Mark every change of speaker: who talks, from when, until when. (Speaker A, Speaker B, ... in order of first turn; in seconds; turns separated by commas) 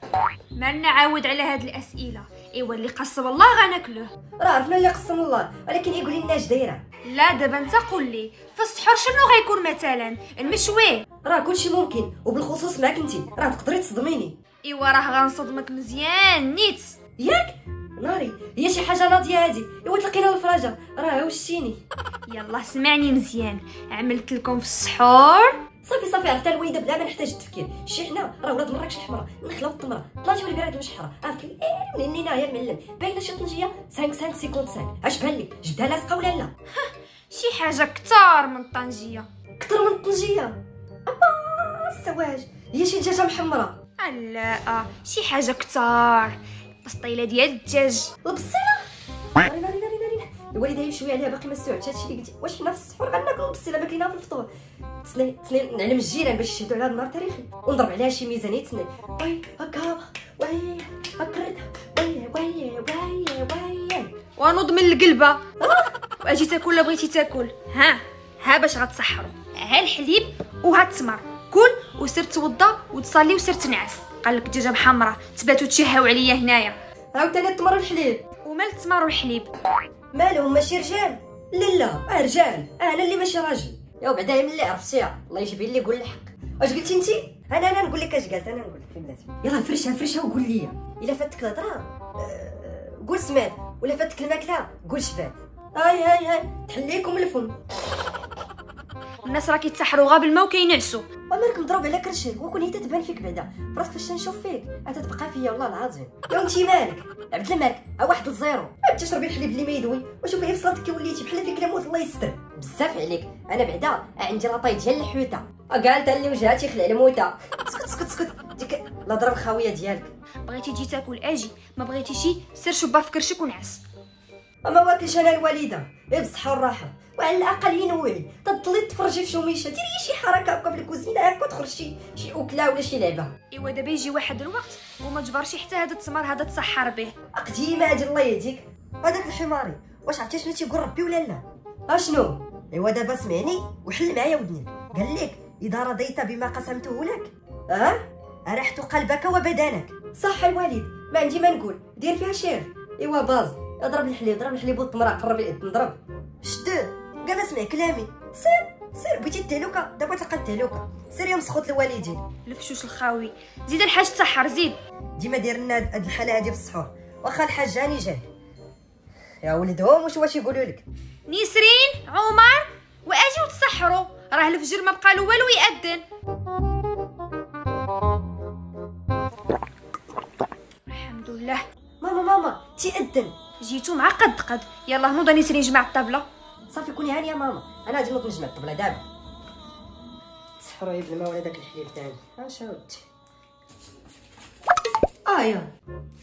Speaker A: 0.5-4.1, Speaker B: 4.4-6.8, Speaker A: 7.0-11.0, Speaker B: 11.2-14.4, Speaker A: 14.6-17.0, Speaker B: 17.2-21.8, Speaker A: 22.3-25.6, Speaker B: 25.8-36.5, Speaker A: 36.7-39.3, Speaker B: 39.6-43.8, Speaker A: 44.0-48.1, Speaker B: 48.2-48.9, Speaker B: 49.4-54.5, Speaker B: 55.0-64.2, Speaker A: 64.4-65.4, Speaker B: 65.6-65.9, Speaker A: 66.2-76.8, Speaker B: 77.1-78.2, Speaker A: 78.4-79.5, Speaker B: 80.1-97.5, Speaker A: 99.2-101.1, Speaker B: 101.3-120.1, Speaker A: 120.5-123.8, Speaker B: 124.6-133.3, Speaker A: 133.5-137.1, Speaker B: 137.3-162.2, Speaker A: 162.4-164.8, Speaker B: 165.2-168.2, Speaker B: 169.4-170.8, Speaker A: 171.3-176.0, Speaker A: 180.9-181.6, Speaker B: 182.0-183.3, Speaker A: 183.6-186.2, Speaker B: 186.7-189.0, Speaker B: 190.6-193.0, Speaker B: 195.2-195.7